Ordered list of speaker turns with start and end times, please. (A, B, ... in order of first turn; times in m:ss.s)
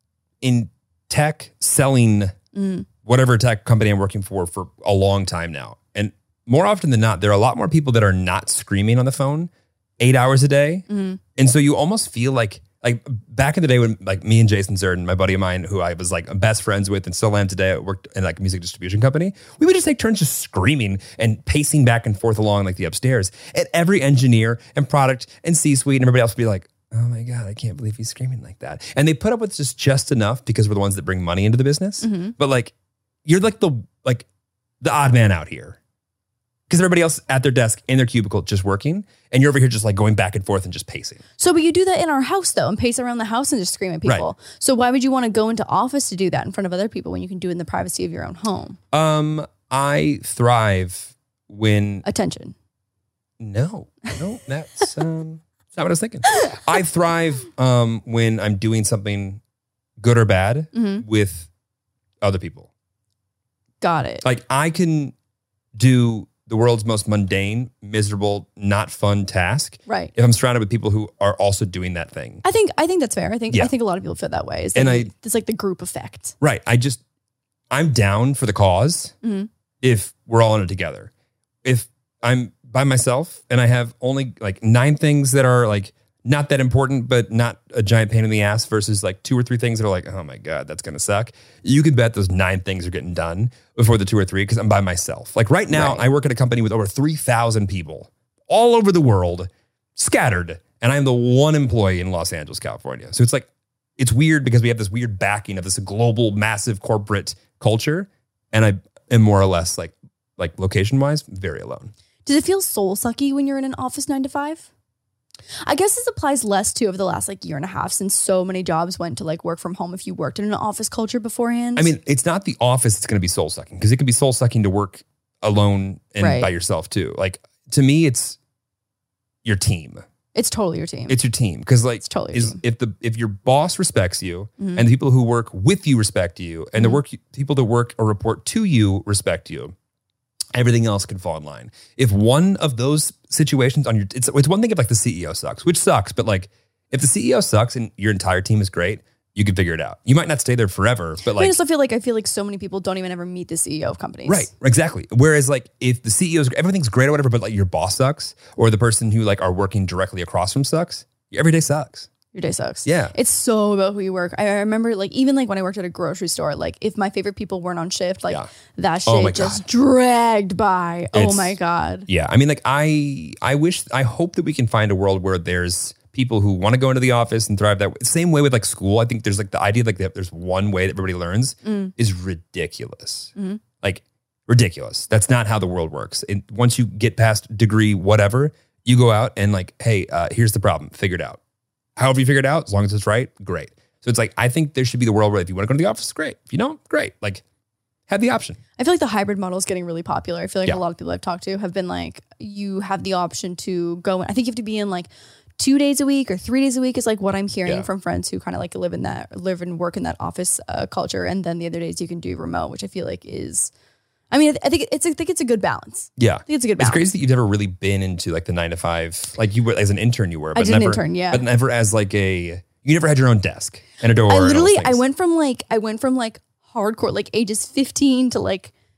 0:00.4-0:02.3 A
0:02.5-0:02.9 B
0:03.0-0:32.7 A
0:10.9-0:11.2 B
0:32.0-0:32.3 B
0:33.2-0:34.2 A
0:34.8-0:35.8 A
0:36.7-0:41.2 A
0:41.4-0:48.8 B
0:48.9-0:52.0 A
0:52.0-0:52.5 B
0:53.4-0:59.4 A
1:00.0-1:01.5 A
1:00.7-1:01.0 B
1:02.2-1:02.7 A
1:03.8-1:04.2 B
1:04.2-1:05.1 A
1:05.8-1:12.4 A
1:09.9-1:10.1 B
1:12.4-1:16.3 B
1:14.7-1:15.1 A
1:16.4-1:17.0 A
1:17.7-1:19.1 A
1:19.2-1:19.5 B
1:19.8-1:21.1 A
1:21.6-1:51.9 A
1:35.7-1:36.0 B
1:52.2-1:54.7 B
1:55.6-2:01.9 B
2:01.8-2:08.4 A
2:06.2-2:06.5 B
2:09.4-2:10.0 A
2:10.3-2:11.2 B
2:11.1-2:19.7 A
2:12.0-2:12.6 B
2:14.6-2:14.9 B
2:20.5-2:31.5 A
2:31.3-2:34.5 B
2:34.3-2:42.1 A
2:42.3-2:52.1 B
2:42.8-2:43.1 A
2:49.0-2:49.6 A
2:51.1-2:51.6 A
2:52.1-3:11.4 A
3:01.6-3:01.9 B
3:12.0-3:17.4 A
3:18.1-3:18.6 A
3:18.8-3:33.7 B
3:34.3-3:37.0 B
3:36.2-3:45.0 A
3:40.5-3:41.4 B
3:44.2-3:48.7 B